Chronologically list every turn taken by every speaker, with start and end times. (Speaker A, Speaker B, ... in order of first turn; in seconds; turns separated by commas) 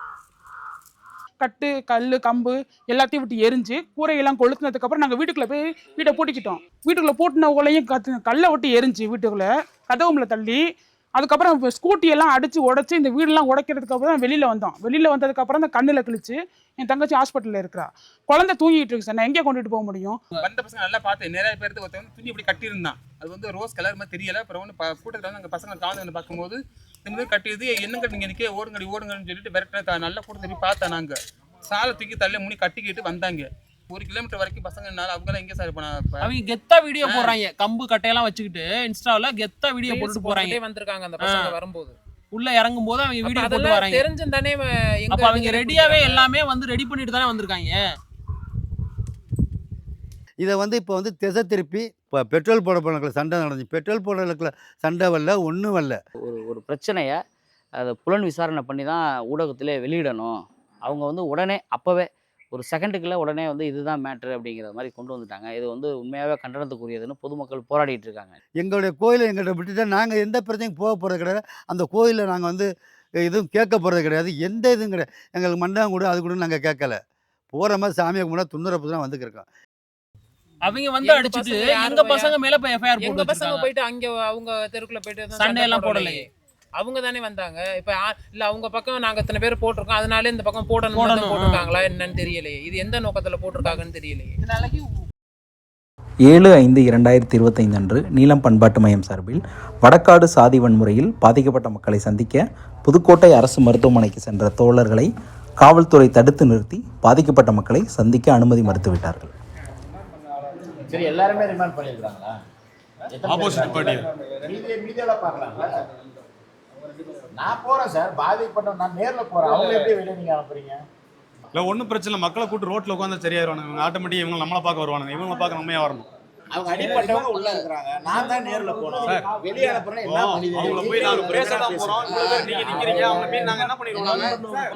Speaker A: 1.4-10.6, Speaker A: 11.2-20.2, Speaker B: 20.4-31.2, Speaker B: 31.7-36.3, Speaker C: 36.2-40.6, Speaker D: 39.8-42.0, Speaker C: 41.2-41.6, Speaker C: 42.3-44.0, Speaker D: 43.2-46.3, Speaker C: 45.1-47.8, Speaker E: 50.4-56.0, Speaker F: 56.2-57.2, Speaker F: 57.8-68.4, Speaker E: 68.6-72.7, Speaker E: 73.2-77.0, Speaker E: 77.5-79.5, Speaker C: 80.7-83.7, Speaker D: 81.0-82.4, Speaker D: 83.0-86.3, Speaker C: 85.3-86.2, Speaker D: 86.8-94.4, Speaker C: 90.9-91.7, Speaker G: 96.3-105.1, Speaker G: 105.6-109.3, Speaker H: 110.9-112.4, Speaker H: 113.1-115.7, Speaker I: 113.3-114.1, Speaker H: 117.4-120.8, Speaker I: 121.5-126.1, Speaker H: 126.5-133.6, Speaker I: 129.1-129.3, Speaker I: 130.0-134.4